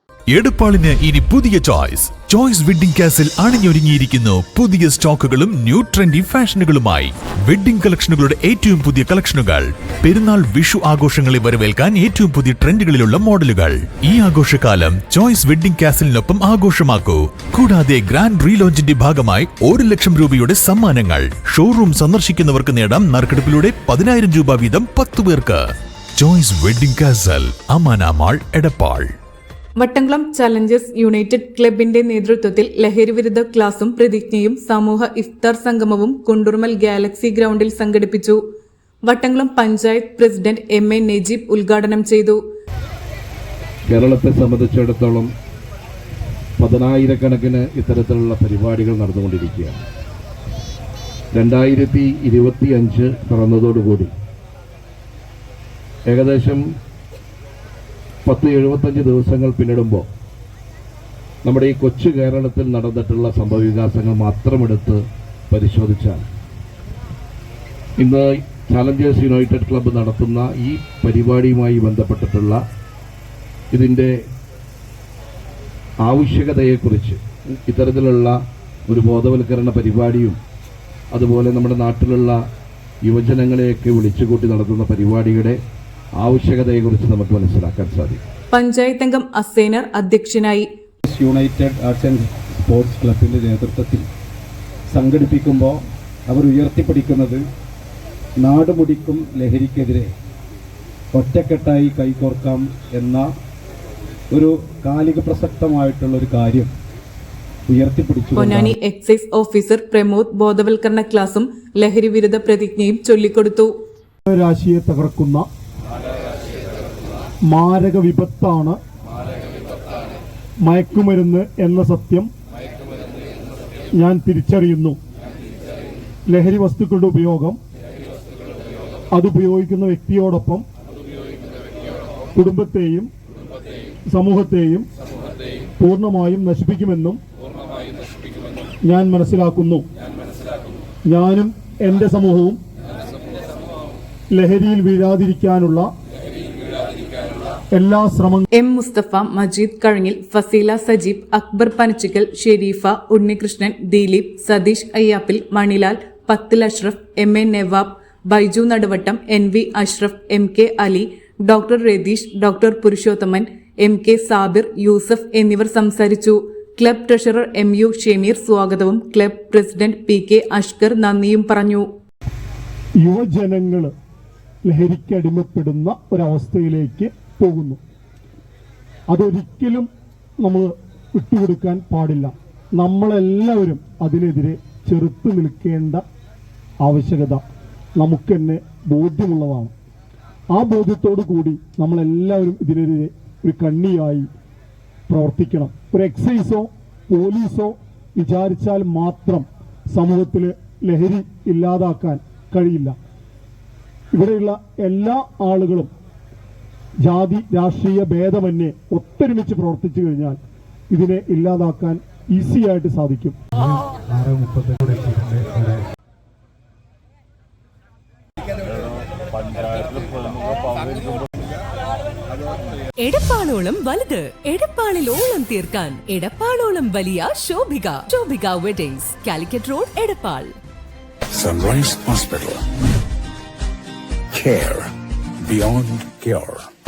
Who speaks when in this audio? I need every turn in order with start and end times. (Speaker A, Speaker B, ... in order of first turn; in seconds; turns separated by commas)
Speaker A: 0.3-25.6, Speaker A: 26.2-29.1, Speaker B: 29.8-38.4, Speaker B: 39.0-42.4, Speaker C: 43.9-45.3, Speaker C: 46.6-49.8, Speaker C: 51.3-54.1, Speaker C: 56.1-56.6, Speaker C: 58.2-60.0, Speaker C: 61.4-66.2, Speaker C: 68.0-72.6, Speaker C: 73.7-74.1, Speaker C: 76.0-78.3, Speaker C: 78.9-80.3, Speaker C: 81.1-82.4, Speaker C: 83.0-85.5, Speaker C: 86.2-88.2, Speaker B: 88.5-90.7, Speaker D: 91.0-94.0, Speaker D: 94.9-97.4, Speaker D: 98.4-100.1, Speaker D: 101.1-103.3, Speaker D: 104.3-106.7, Speaker D: 107.7-108.7, Speaker B: 108.3-113.7, Speaker E: 114.3-115.4, Speaker E: 117.5-118.8, Speaker E: 120.6-122.3, Speaker E: 124.0-125.0, Speaker E: 126.3-127.6, Speaker E: 129.1-130.6, Speaker E: 132.3-133.1, Speaker E: 134.1-134.8, Speaker E: 135.8-137.2, Speaker E: 138.8-139.8, Speaker E: 141.1-142.6, Speaker E: 144.3-145.8, Speaker E: 147.7-148.4, Speaker B: 148.5-171.8, Speaker E: 173.0-173.9, Speaker E: 174.6-177.8, Speaker E: 179.1-179.9, Speaker E: 180.4-186.0, Speaker E: 186.8-187.4, Speaker E: 187.9-189.7, Speaker E: 190.5-194.3, Speaker E: 195.1-202.9, Speaker E: 204.1-205.9, Speaker E: 207.0-210.4, Speaker E: 210.9-213.3, Speaker D: 213.6-215.8, Speaker F: 223.0-230.6, Speaker G: 231.3-232.6, Speaker G: 234.3-234.9, Speaker G: 235.4-236.7